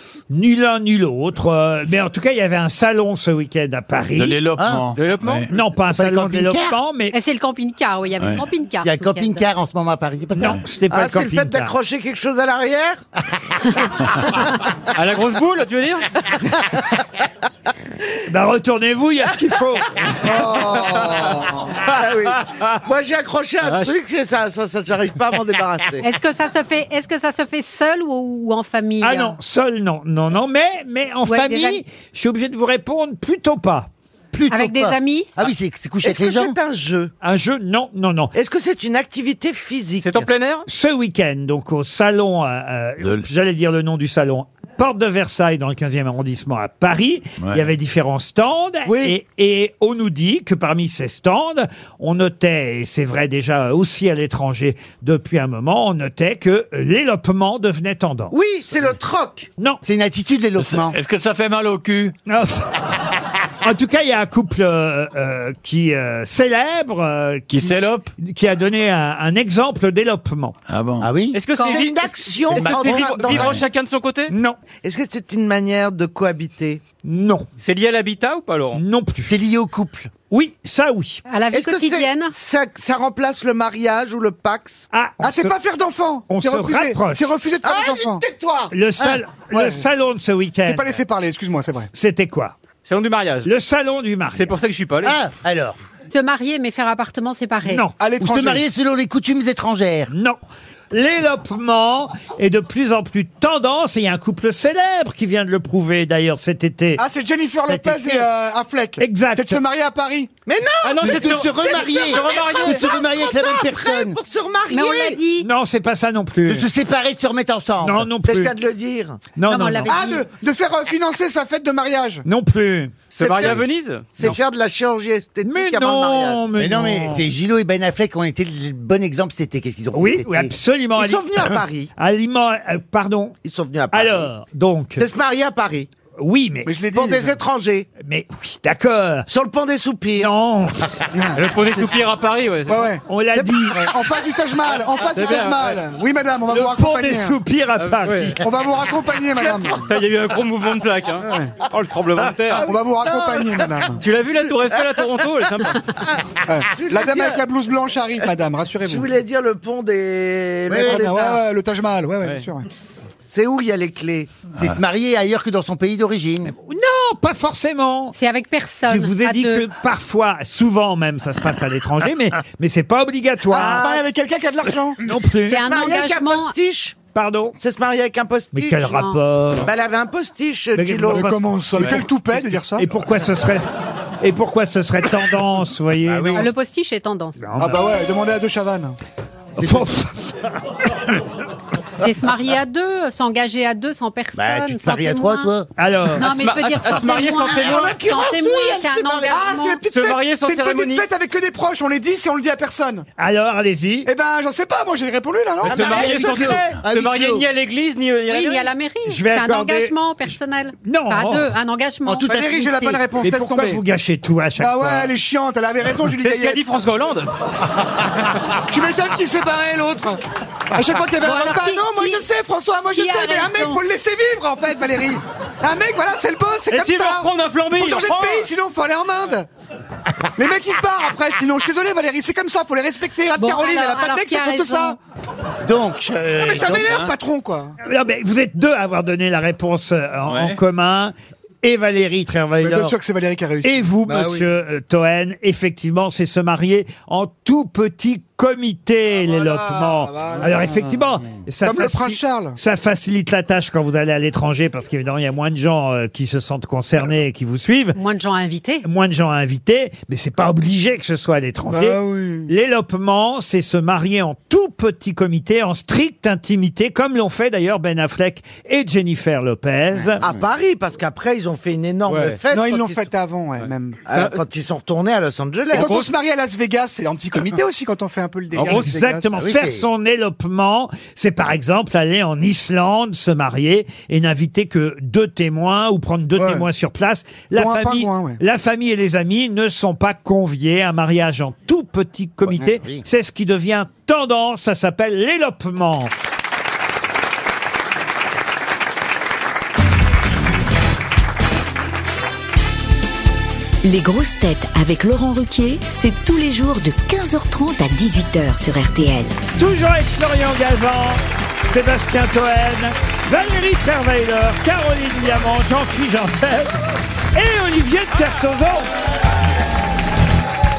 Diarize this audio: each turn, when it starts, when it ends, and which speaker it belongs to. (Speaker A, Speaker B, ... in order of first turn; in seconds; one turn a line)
Speaker A: 0.3-4.4
Speaker B: 4.1-5.5
Speaker C: 4.6-4.9
Speaker D: 5.0-5.5
Speaker A: 5.5-7.2
Speaker C: 5.9-6.8
Speaker E: 7.1-9.4
Speaker C: 8.8-10.6
Speaker A: 10.3-11.7
Speaker F: 10.9-13.0
Speaker D: 14.9-16.2
Speaker A: 18.3-20.1
Speaker F: 20.0-26.1
Speaker G: 20.2-21.5
Speaker D: 21.6-22.6
Speaker D: 23.6-23.9
Speaker E: 26.0-29.4
Speaker A: 29.0-33.9
Speaker E: 31.2-31.8
Speaker C: 34.3-36.5
Speaker E: 34.5-35.3
Speaker F: 36.0-37.1
Speaker A: 37.2-38.3
Speaker F: 38.3-40.3
Speaker D: 40.0-40.6
Speaker A: 40.6-58.3
Speaker B: 47.4-47.6
Speaker F: 48.9-49.1
Speaker F: 58.3-59.5
Speaker C: 59.8-61.0
Speaker B: 60.6-62.1
Speaker A: 62.3-62.9
Speaker A: 63.6-70.5
Speaker B: 67.5-68.1
Speaker B: 70.7-71.1
Speaker C: 71.0-71.4
Speaker D: 71.3-74.3
Speaker E: 71.5-71.8
Speaker F: 71.6-73.6
Speaker C: 72.5-73.5
Speaker B: 73.3-73.6
Speaker A: 74.3-74.6
Speaker F: 74.8-76.8
Speaker A: 77.0-77.5
Speaker D: 77.6-78.8
Speaker A: 78.7-79.3
Speaker C: 79.2-80.1
Speaker A: 80.3-81.2
Speaker E: 81.2-82.3
Speaker F: 81.5-84.9
Speaker A: 84.9-85.5
Speaker G: 85.2-88.2
Speaker A: 86.3-87.2
Speaker F: 87.6-88.7
Speaker A: 88.7-90.9
Speaker G: 89.5-89.8
Speaker G: 90.6-91.9
Speaker A: 91.9-92.5
Speaker D: 92.8-93.5
Speaker A: 93.4-94.5
Speaker D: 94.3-95.2
Speaker C: 95.0-95.8
Speaker E: 96.1-97.8
Speaker A: 97.7-97.9
Speaker G: 98.0-98.7
Speaker C: 98.2-100.1
Speaker A: 100.1-100.4
Speaker A: 100.9-107.0
Speaker G: 107.0-110.3
Speaker C: 107.7-108.3
Speaker A: 109.0-109.6
Speaker F: 110.5-115.2
Speaker D: 110.8-113.0
Speaker C: 111.0-114.2
Speaker E: 114.7-115.5
Speaker A: 115.4-116.7
Speaker C: 116.5-118.1
Speaker A: 117.8-118.5
Speaker F: 118.2-119.2
Speaker A: 119.3-120.0
Speaker E: 119.5-120.2
Speaker G: 119.9-122.2
Speaker A: 122.2-123.1
Speaker D: 123.1-124.3
Speaker F: 123.1-126.4
Speaker A: 125.4-127.3
Speaker C: 126.6-130.5
Speaker A: 129.9-133.4
Speaker F: 130.9-131.9
Speaker F: 133.4-134.3
Speaker A: 133.9-135.0
Speaker F: 135.0-135.9
Speaker A: 136.2-136.8
Speaker G: 136.6-137.4
Speaker F: 136.9-137.9
Speaker A: 138.0-139.3
Speaker F: 139.3-140.3
Speaker A: 140.2-140.9
Speaker G: 141.1-141.4
Speaker D: 141.3-142.9
Speaker G: 142.7-143.0
Speaker A: 143.1-143.9
Speaker G: 143.7-147.4
Speaker D: 145.0-145.8
Speaker A: 146.5-148.4
Speaker D: 147.8-148.4
Speaker G: 148.4-149.9
Speaker D: 149.5-152.7
Speaker G: 151.2-151.5
Speaker F: 152.5-153.9
Speaker G: 152.7-154.0
Speaker D: 154.0-155.8
Speaker F: 154.4-155.0
Speaker G: 156.5-159.1
Speaker F: 156.7-157.4
Speaker F: 158.8-161.4
Speaker C: 160.7-161.1
Speaker G: 160.8-162.7
Speaker F: 163.3-164.3
Speaker C: 164.6-166.5
Speaker A: 166.5-168.2
Speaker E: 168.1-169.7
Speaker A: 168.8-173.8
Speaker G: 173.5-175.0
Speaker F: 173.5-174.1
Speaker A: 175.0-175.7
Speaker E: 175.5-176.5
Speaker F: 175.5-177.0
Speaker A: 177.1-177.6
Speaker F: 177.6-179.0
Speaker A: 178.5-179.7
Speaker E: 178.9-179.2
Speaker F: 179.6-181.9
Speaker A: 180.7-183.6
Speaker G: 181.1-182.9
Speaker A: 184.2-186.5
Speaker C: 186.1-186.5
Speaker E: 186.3-187.4
Speaker A: 187.4-187.8
Speaker G: 187.6-188.9
Speaker C: 189.6-189.9
Speaker A: 189.6-190.4
Speaker E: 192.0-195.5
Speaker C: 194.3-195.7
Speaker A: 195.8-196.3
Speaker E: 196.1-199.8
Speaker D: 196.2-198.0
Speaker F: 197.4-199.4
Speaker G: 199.3-203.1
Speaker D: 199.9-201.1
Speaker A: 203.2-204.1
Speaker G: 204.0-206.3
Speaker D: 205.6-208.7
Speaker C: 205.6-207.4
Speaker E: 208.3-212.3
Speaker A: 209.1-209.9
Speaker A: 210.8-211.5
Speaker C: 212.1-213.1
Speaker G: 212.2-213.8
Speaker A: 213.2-215.1
Speaker G: 214.6-216.6
Speaker D: 216.1-217.3
Speaker G: 218.7-220.2
Speaker G: 220.7-229.5
Speaker E: 221.2-222.2
Speaker E: 222.9-223.8
Speaker D: 226.7-228.5
Speaker G: 230.4-235.0
Speaker E: 233.4-235.0
Speaker C: 235.6-237.0
Speaker G: 236.3-237.8
Speaker B: 236.8-237.1
Speaker A: 237.8-242.9
Speaker B: 240.2-240.6
Speaker G: 242.6-244.5
Speaker A: 243.6-258.0
Speaker G: 249.2-250.9
Speaker G: 251.6-252.6
Speaker E: 257.9-258.9
Speaker A: 258.8-270.2
Speaker G: 261.7-262.5
Speaker F: 270.2-273.1
Speaker D: 272.1-272.4
Speaker G: 272.5-274.0
Speaker D: 273.6-274.4
Speaker F: 274.1-276.1
Speaker G: 275.7-279.3
Speaker D: 275.7-276.1
Speaker D: 278.5-279.0
Speaker A: 278.6-296.1
Speaker C: 279.4-279.8
Speaker G: 286.4-286.7
Speaker G: 287.5-288.4
Speaker C: 292.4-293.0
Speaker H: 303.8-309.4
Speaker A: 309.5-316.7
Speaker A: 317.3-318.9